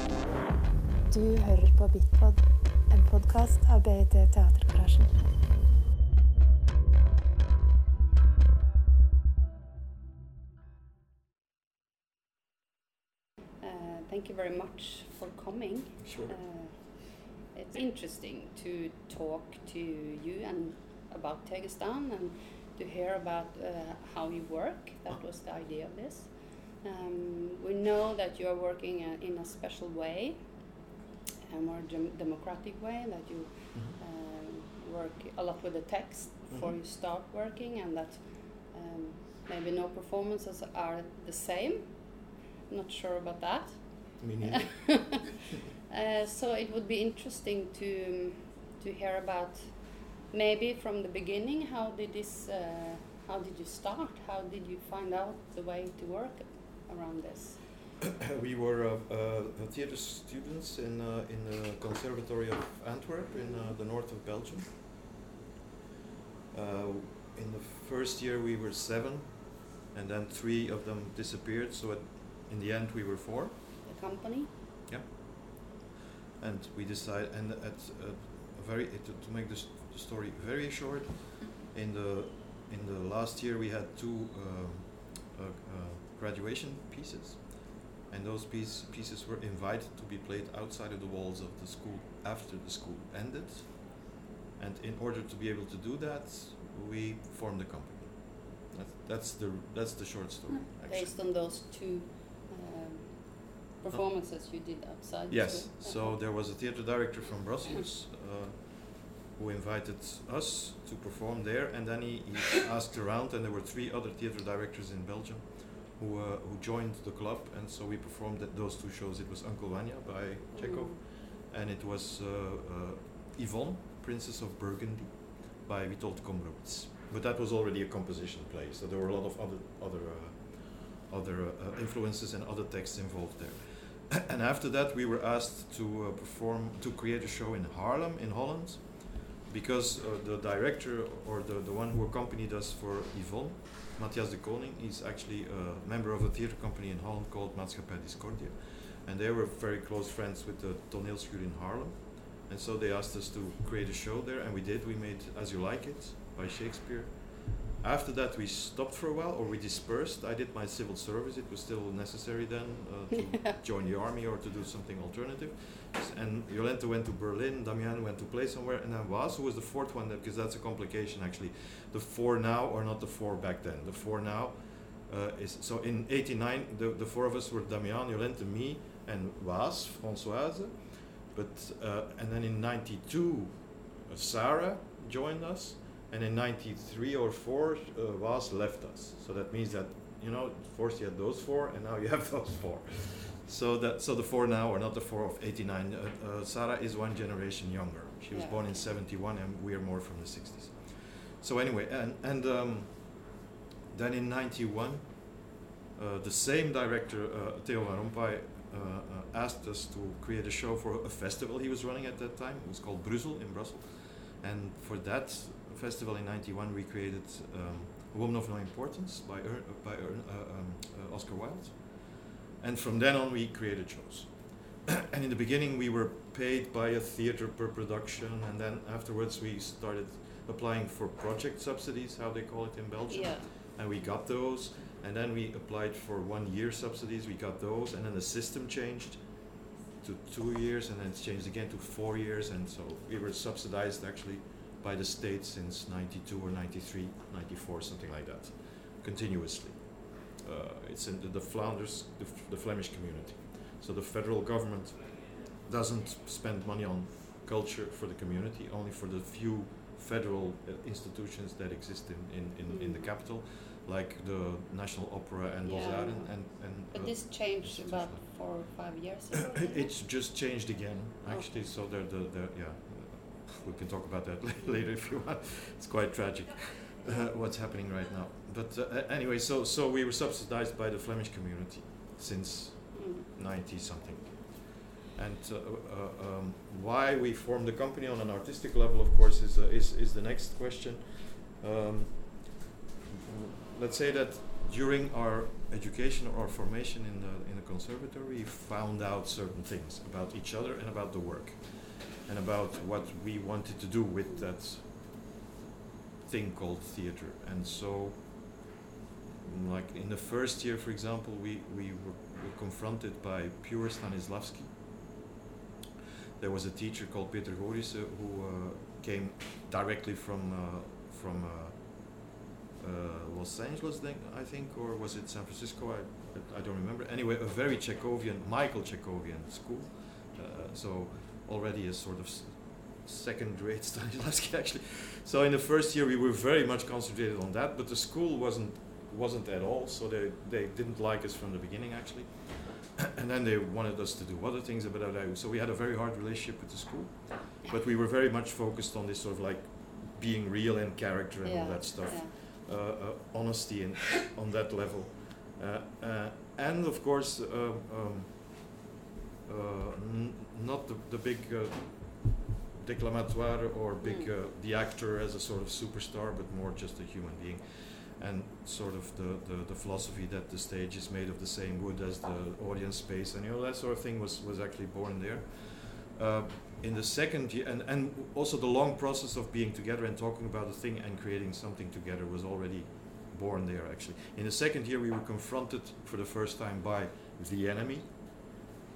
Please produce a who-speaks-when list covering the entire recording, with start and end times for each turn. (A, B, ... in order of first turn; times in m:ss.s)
0:01.1-0:05.4 A
0:13.6-0:30.4 B
0:16.0-0:16.4 C
0:31.5-0:45.3 B
0:33.7-0:34.0 C
0:36.5-0:36.8 C
0:44.2-0:45.3 C
0:45.9-0:57.7 B
0:58.0-1:04.8 C
1:03.3-1:03.8 B
1:06.5-1:13.6 C
1:13.8-1:14.5 B
1:14.9-1:15.8 C
1:16.4-1:41.2 C
1:40.9-1:46.2 B
1:45.3-3:59.3 C
2:00.5-2:01.0 B
3:18.3-3:18.9 B
3:53.1-3:53.5 B
4:00.0-4:28.3 C
4:22.7-4:23.2 B
4:25.6-4:26.4 B
4:26.9-4:29.9 B
4:29.3-4:52.6 C
4:31.3-4:31.6 B
4:42.9-4:43.3 B
4:53.1-5:05.3 C
5:04.2-5:04.5 B
5:06.2-5:08.7 C
5:09.3-5:14.8 C
5:16.4-5:58.8 C
5:51.4-5:52.3 B
5:59.5-6:28.6 C
6:04.0-6:04.3 B